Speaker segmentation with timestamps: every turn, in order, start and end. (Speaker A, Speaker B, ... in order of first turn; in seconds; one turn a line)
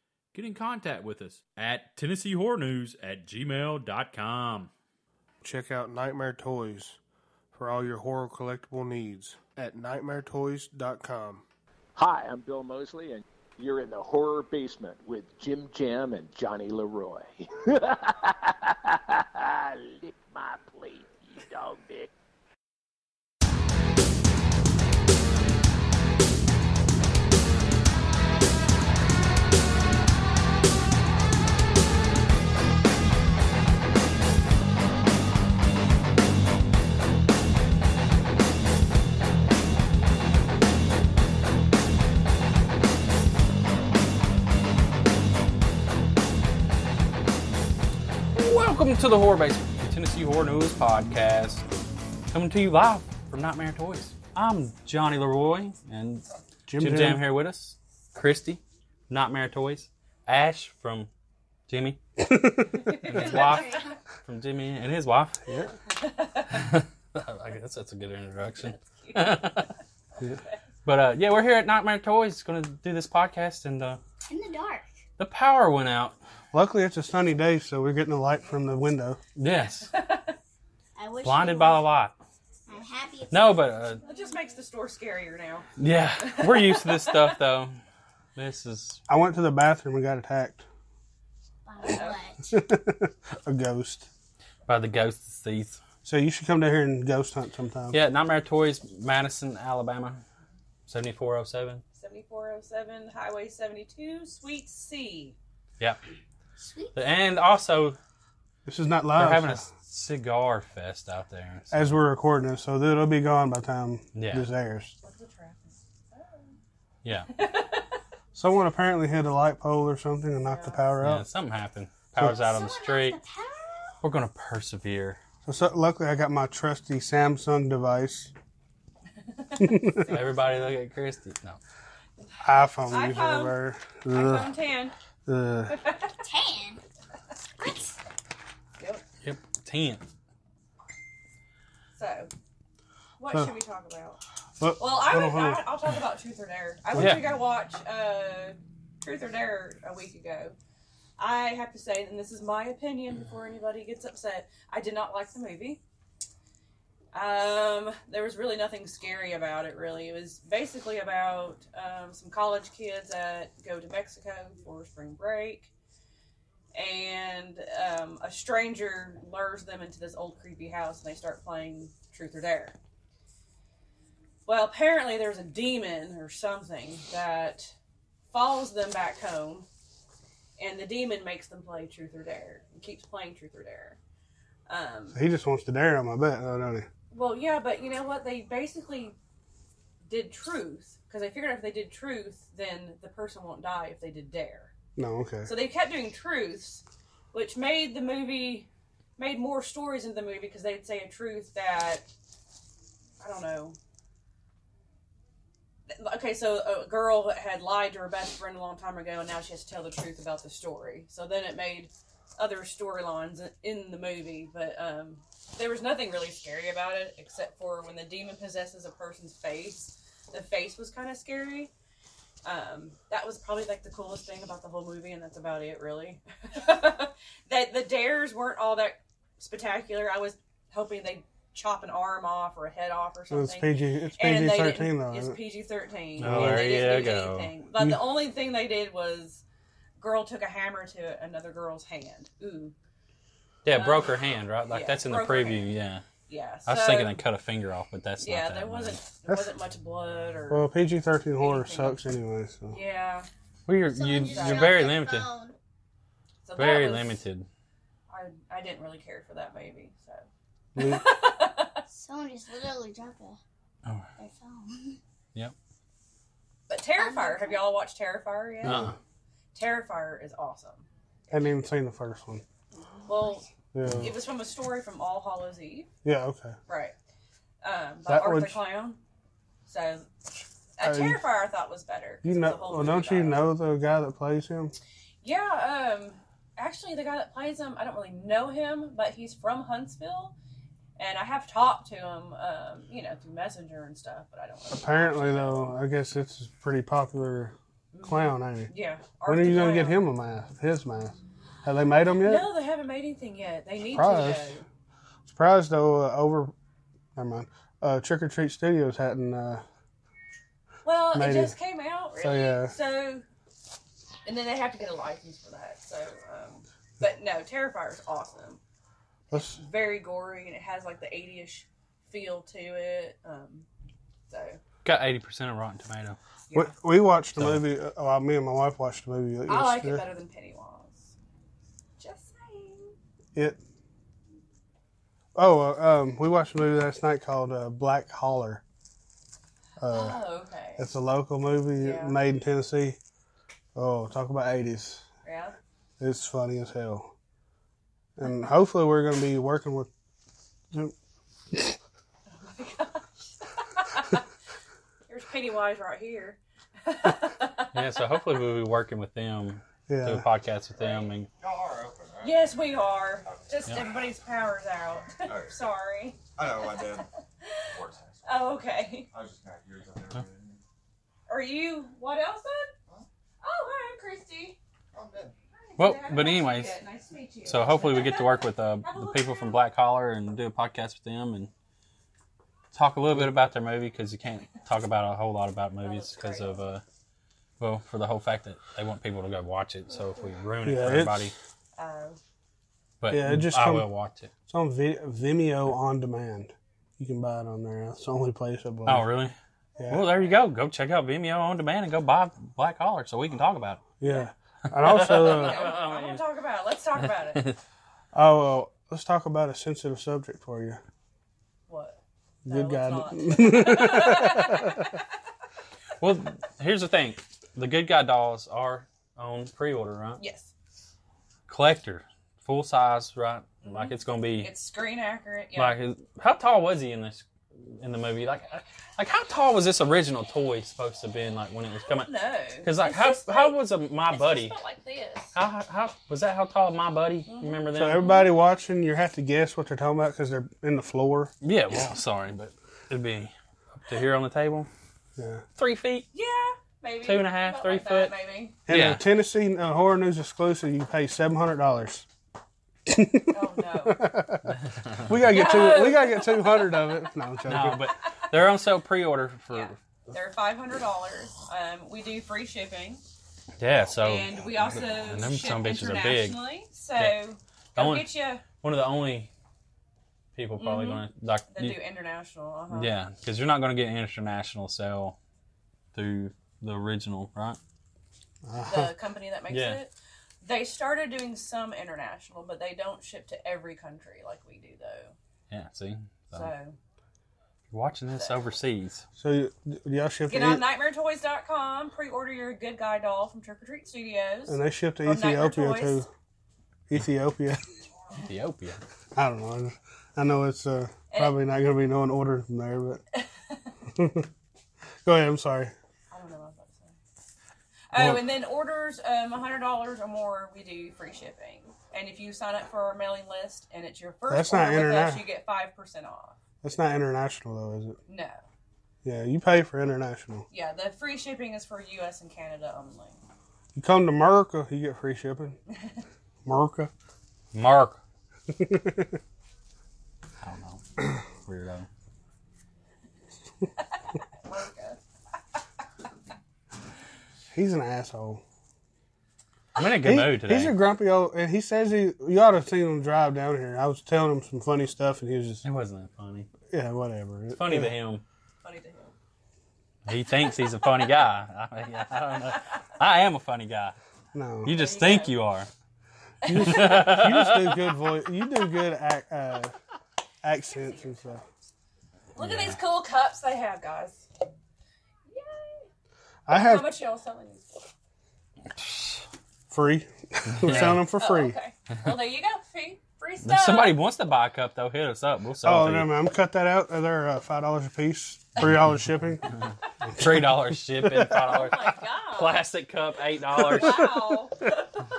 Speaker A: 0.3-4.7
Speaker B: 5.4-7.0
Speaker B: 7.5-11.4
Speaker C: 11.9-22.1
Speaker D: 48.3-51.6
Speaker D: 52.3-61.1
Speaker B: 56.7-57.2
Speaker D: 61.7-62.0
Speaker B: 62.2-62.8
Speaker D: 63.0-65.4
Speaker E: 63.1-64.0
Speaker F: 63.1-63.6
Speaker B: 65.5-65.7
Speaker F: 66.0-66.6
Speaker D: 66.5-69.7
Speaker F: 68.8-69.5
Speaker D: 70.8-74.0
Speaker E: 74.2-74.9
Speaker D: 75.2-76.2
Speaker B: 76.5-79.2
Speaker D: 79.4-79.9
Speaker F: 79.9-80.4
Speaker E: 81.0-81.9
Speaker D: 81.2-82.2
Speaker E: 82.7-84.4
Speaker D: 83.3-84.0
Speaker F: 84.0-85.7
Speaker D: 85.8-87.8
Speaker F: 86.2-87.3
Speaker D: 88.3-89.0
Speaker B: 89.1-90.6
Speaker E: 91.7-92.5
Speaker B: 92.4-94.1
Speaker D: 94.7-95.8
Speaker B: 96.0-98.0
Speaker D: 97.9-100.2
Speaker D: 100.9-101.8
Speaker F: 101.9-105.3
Speaker E: 106.6-107.0
Speaker D: 106.9-108.0
Speaker B: 108.7-109.7
Speaker D: 109.1-111.9
Speaker B: 111.7-114.9
Speaker D: 114.2-114.5
Speaker F: 115.0-116.5
Speaker D: 117.0-117.3
Speaker F: 117.3-117.9
Speaker B: 118.3-121.3
Speaker F: 120.4-120.8
Speaker D: 121.0-123.2
Speaker B: 122.2-122.4
Speaker E: 122.2-124.0
Speaker D: 124.0-125.2
Speaker B: 125.4-128.3
Speaker F: 129.4-130.1
Speaker B: 129.6-130.1
Speaker D: 130.1-131.6
Speaker B: 132.4-134.6
Speaker F: 132.9-133.6
Speaker F: 134.1-134.9
Speaker B: 135.2-135.8
Speaker F: 135.7-136.2
Speaker E: 136.2-136.8
Speaker E: 137.6-137.9
Speaker F: 138.8-139.0
Speaker D: 139.2-140.0
Speaker F: 142.0-142.3
Speaker F: 143.2-144.2
Speaker B: 144.6-145.7
Speaker F: 144.8-150.6
Speaker B: 146.9-147.2
Speaker D: 147.0-147.3
Speaker F: 151.2-155.8
Speaker F: 157.1-165.7
Speaker F: 166.7-172.8
Speaker F: 174.4-177.7
Speaker F: 178.3-179.7
Speaker F: 180.6-184.0
Speaker F: 184.7-185.2
Speaker B: 185.1-186.9
Speaker F: 187.1-189.2
Speaker F: 190.0-194.7
Speaker B: 194.9-195.5
Speaker F: 195.4-202.1
Speaker F: 203.2-203.8
Speaker F: 205.9-221.7
Speaker F: 222.4-239.4
Speaker B: 233.3-235.4
Speaker D: 236.2-237.5
Speaker B: 236.2-236.7
Speaker B: 237.7-238.1
Speaker F: 240.0-242.7
Speaker D: 243.6-246.0
Speaker F: 243.7-244.1
Speaker F: 244.7-245.7
Speaker F: 246.3-247.2
Speaker D: 246.7-249.0
Speaker F: 248.2-250.7
Speaker B: 250.5-252.8
Speaker F: 251.4-252.0
Speaker F: 252.7-253.3
Speaker D: 253.7-255.3
Speaker E: 253.8-255.5
Speaker F: 254.3-254.8
Speaker F: 256.4-257.2
Speaker D: 256.6-257.5
Speaker F: 258.1-260.3
Speaker B: 260.7-261.0
Speaker F: 260.8-261.8
Speaker E: 261.9-263.4
Speaker E: 264.2-265.0
Speaker F: 266.7-268.9
Speaker E: 267.0-267.7
Speaker B: 268.6-268.9
Speaker D: 268.6-268.9
Speaker F: 269.5-271.5
Speaker B: 271.3-272.4
Speaker F: 273.1-273.4
Speaker E: 273.1-273.4
Speaker B: 273.7-274.1
Speaker F: 274.0-275.9
Speaker B: 276.0-276.6
Speaker F: 276.7-276.9
Speaker F: 277.6-279.0
Speaker B: 278.1-278.6
Speaker F: 279.6-280.1
Speaker F: 280.8-283.5
Speaker B: 280.8-281.2
Speaker B: 282.2-284.7
Speaker F: 285.2-290.3
Speaker F: 291.0-295.8
Speaker B: 294.7-298.7
Speaker F: 297.9-300.0
Speaker B: 299.2-302.5
Speaker F: 302.1-304.6
Speaker B: 303.9-304.6
Speaker B: 305.2-306.5
Speaker B: 307.1-309.6
Speaker F: 310.8-313.2
Speaker B: 311.1-311.6
Speaker B: 312.2-312.7
Speaker F: 314.2-318.6
Speaker B: 319.3-319.6
Speaker F: 319.3-323.6
Speaker F: 324.3-324.6
Speaker D: 324.8-326.2
Speaker F: 326.5-326.7
Speaker B: 326.5-330.0
Speaker D: 327.4-327.6
Speaker F: 329.5-331.1
Speaker F: 332.0-332.9
Speaker B: 333.3-333.6
Speaker B: 335.3-338.6
Speaker B: 339.8-343.0
Speaker F: 339.9-340.9
Speaker F: 341.8-342.2
Speaker B: 343.7-345.1
Speaker F: 345.2-345.6
Speaker B: 346.0-347.1
Speaker B: 348.1-349.9
Speaker B: 351.5-351.8
Speaker F: 352.3-354.2
Speaker F: 355.1-357.8
Speaker D: 357.7-361.3
Speaker B: 359.9-360.2
Speaker F: 360.8-361.1
Speaker G: 361.4-362.6
Speaker F: 362.2-367.0
Speaker G: 363.2-363.8
Speaker G: 365.2-365.6
Speaker G: 366.4-367.1
Speaker G: 367.6-368.6
Speaker F: 368.2-369.1
Speaker G: 369.1-370.6
Speaker F: 371.3-372.7
Speaker F: 373.4-374.6
Speaker G: 374.9-375.4
Speaker F: 375.6-379.6
Speaker D: 375.8-376.8
Speaker D: 377.4-381.5
Speaker D: 382.7-386.8
Speaker F: 385.8-386.7
Speaker D: 387.6-391.3
Speaker B: 390.6-391.3
Speaker F: 391.8-392.2
Speaker D: 393.0-394.3
Speaker B: 393.1-393.9
Speaker B: 394.5-399.1
Speaker D: 398.9-399.3
Speaker B: 399.8-400.1
Speaker D: 399.9-403.9
Speaker B: 404.0-405.6
Speaker D: 404.8-406.2
Speaker F: 405.0-407.5
Speaker B: 408.1-410.8
Speaker F: 411.7-415.0
Speaker B: 412.4-415.0
Speaker D: 416.0-420.2
Speaker F: 420.2-420.5
Speaker D: 421.5-424.5
Speaker F: 423.6-425.8
Speaker D: 425.6-434.5
Speaker F: 431.9-435.3
Speaker D: 435.3-438.1
Speaker F: 437.2-438.2
Speaker B: 437.7-441.3
Speaker D: 441.4-444.7
Speaker B: 445.1-445.4
Speaker D: 445.6-446.1
Speaker F: 446.1-448.6
Speaker D: 447.0-448.1
Speaker B: 448.7-452.1
Speaker D: 448.7-449.0
Speaker B: 452.9-457.9
Speaker F: 453.3-454.1
Speaker D: 454.5-455.4
Speaker F: 455.3-457.0
Speaker D: 457.4-459.8
Speaker F: 459.5-463.0
Speaker D: 463.6-466.4
Speaker F: 463.9-468.4
Speaker D: 466.9-469.3
Speaker D: 470.3-471.8
Speaker F: 470.6-472.9
Speaker D: 472.7-475.1
Speaker D: 475.9-477.6
Speaker B: 478.4-478.9
Speaker F: 478.6-485.1
Speaker D: 479.5-479.8
Speaker D: 485.5-486.5
Speaker F: 486.3-486.8
Speaker D: 487.7-489.0
Speaker F: 488.1-488.4
Speaker B: 489.1-490.6
Speaker F: 490.3-496.0
Speaker B: 494.5-496.1
Speaker B: 496.9-497.6
Speaker D: 498.2-498.8
Speaker B: 499.1-503.0
Speaker F: 503.1-503.7
Speaker B: 503.9-504.3
Speaker B: 505.0-505.7
Speaker F: 506.1-506.9
Speaker F: 507.9-516.4
Speaker B: 507.9-508.3
Speaker B: 514.3-515.2
Speaker B: 516.6-518.0
Speaker F: 518.1-518.4
Speaker B: 519.0-520.5
Speaker F: 520.5-523.2
Speaker B: 523.7-525.6
Speaker B: 526.4-526.9
Speaker D: 527.5-528.0
Speaker B: 528.5-529.2
Speaker D: 530.4-531.9
Speaker F: 534.4-535.0
Speaker B: 537.5-538.4
Speaker D: 539.8-540.8
Speaker B: 540.0-545.6
Speaker D: 545.6-546.5
Speaker B: 546.7-547.9
Speaker D: 547.5-548.2
Speaker F: 548.6-549.1
Speaker D: 550.1-554.0
Speaker B: 554.3-554.7
Speaker D: 554.6-555.7
Speaker F: 554.7-555.3
Speaker B: 556.4-559.7
Speaker F: 556.5-556.8
Speaker D: 556.6-557.8
Speaker B: 560.4-561.4
Speaker F: 560.7-561.4
Speaker F: 562.4-564.2
Speaker D: 562.4-562.8
Speaker F: 565.3-565.9
Speaker B: 566.5-567.0
Speaker F: 566.5-567.9
Speaker B: 569.7-571.6
Speaker D: 570.5-571.0
Speaker F: 570.9-574.0
Speaker D: 573.4-576.1
Speaker B: 575.6-579.4
Speaker B: 580.0-581.5
Speaker D: 580.1-584.3
Speaker F: 581.4-582.6
Speaker F: 583.6-584.9